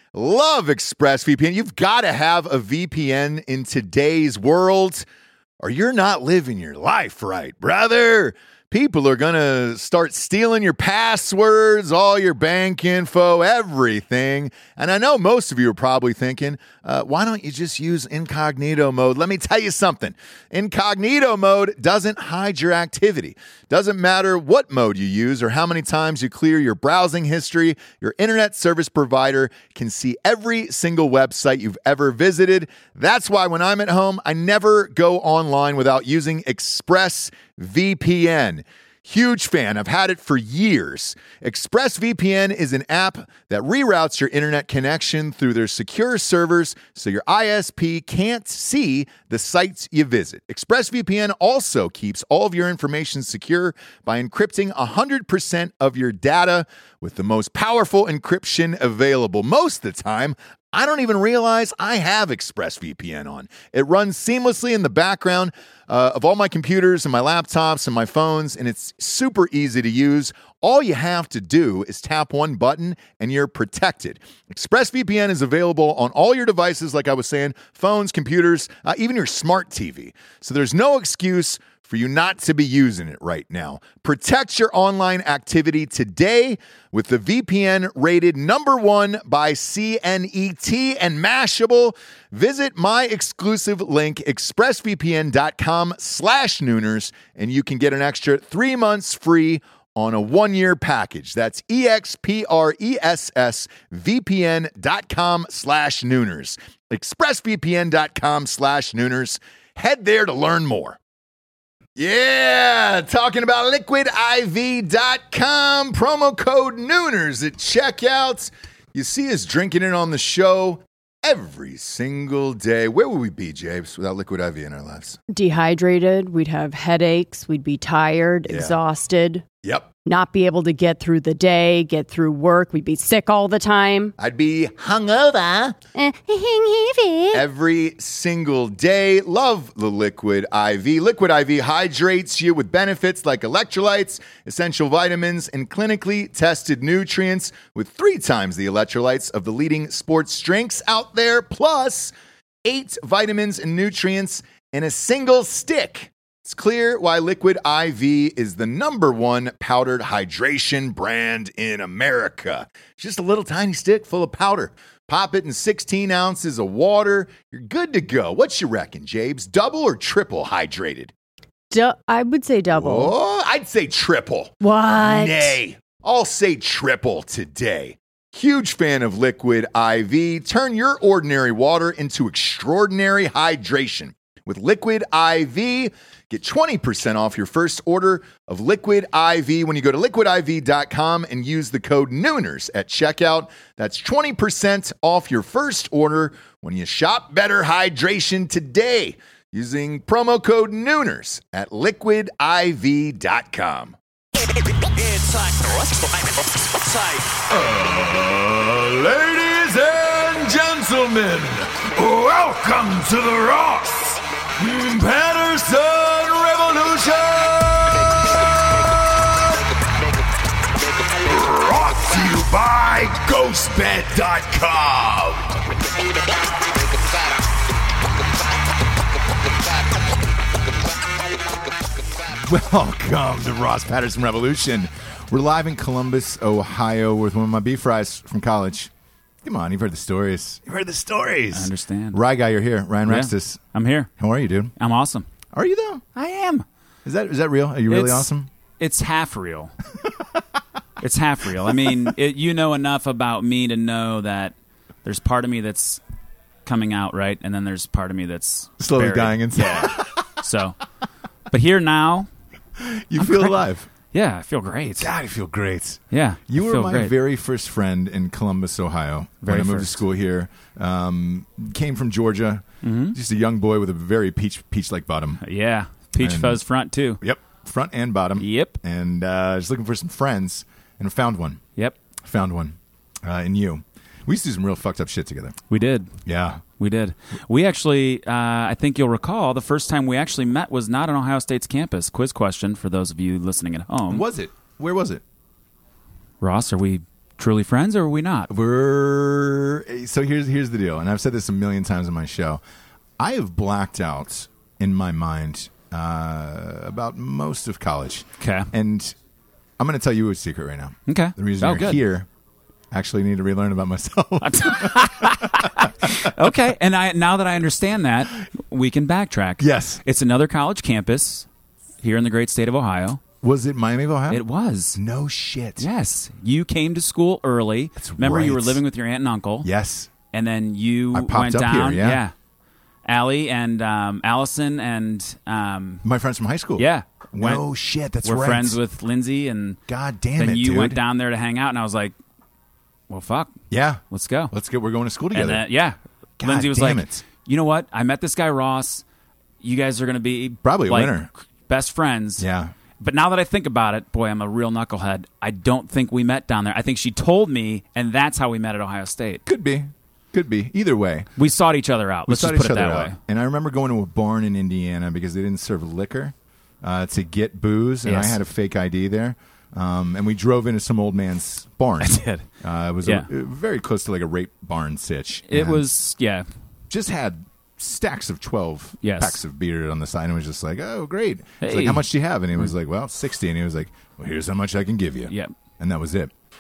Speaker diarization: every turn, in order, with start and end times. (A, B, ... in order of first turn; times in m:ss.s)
0:00.1-0:05.0 A
0:05.6-1:51.0 A
1:52.0-2:05.2 A
2:05.3-2:09.4 B
2:08.5-2:08.8 A
2:09.6-2:09.9 A
2:10.1-2:14.1 B
2:14.2-2:15.8 A
2:15.9-2:17.4 B
2:17.3-2:32.1 A
2:32.6-2:51.1 A
2:51.7-2:53.1 B
2:52.7-3:24.0 A
2:54.6-2:55.6 B
3:27.1-3:39.5 A
3:41.0-3:45.6 A
3:52.3-3:58.9 A
3:59.4-4:03.6 A
4:01.5-4:02.2 C
4:03.1-4:04.1 C
4:04.2-4:04.7 A
4:04.8-4:05.3 C
4:05.5-4:06.0 A
4:06.1-4:06.7 C
4:07.0-4:08.5 A
4:07.9-4:09.7 C
4:11.0-4:16.0 C
4:16.6-4:20.8 C
4:18.8-4:20.2 A
4:21.5-4:22.3 C
4:22.8-4:23.9 A
4:23.2-4:23.6 C
4:24.1-4:25.1 C
4:25.0-4:35.4 A
4:26.1-4:27.1 C
4:29.4-4:30.0 C
4:32.8-4:33.2 C
4:35.4-4:37.2 C
4:36.2-4:36.6 A
4:37.2-4:41.6 A
4:38.4-4:38.8 C
4:42.2-4:45.6 A
4:45.7-4:46.2 C
4:46.2-4:46.6 A
4:46.8-4:54.2 C
4:54.1-4:55.2 A
4:56.4-4:58.5 C
4:58.5-5:02.6 A
5:03.2-5:09.2 A
5:08.4-5:08.7 C
5:09.8-5:12.3 A
5:11.1-5:12.0 C
5:12.9-5:16.3 A
5:14.4-5:21.5 C
5:19.6-5:20.0 A
5:22.0-5:23.2 C
5:23.4-5:24.4 A
5:24.3-5:25.0 C
5:24.9-5:25.9 A
5:25.8-5:29.7 C
5:28.0-5:28.8 A
5:29.6-5:30.1 A
5:30.3-5:32.3 C
5:31.1-5:32.2 A
5:33.0-5:36.0 C
5:36.0-5:38.8 A
5:36.8-5:37.6 C
5:38.2-5:39.8 C
5:39.9-5:41.0 A
5:40.4-5:42.2 C
5:43.1-5:43.6 C
5:43.7-5:45.7 A
5:44.1-5:44.5 C
5:45.3-5:49.0 C
5:46.4-5:47.2 A
5:49.6-5:52.4 C
5:50.6-5:51.3 A
5:52.4-5:52.7 A
5:53.0-5:59.4 C
5:59.5-6:01.3 A
6:01.4-6:03.2 C
6:02.3-6:15.9 A
6:08.0-6:08.4 C
6:12.0-6:12.5 C
6:13.0-6:13.3 C
6:15.5-6:16.5 C
6:16.9-6:26.3 A
6:19.0-6:19.4 C
6:21.6-6:22.7 C
6:25.3-6:25.5 C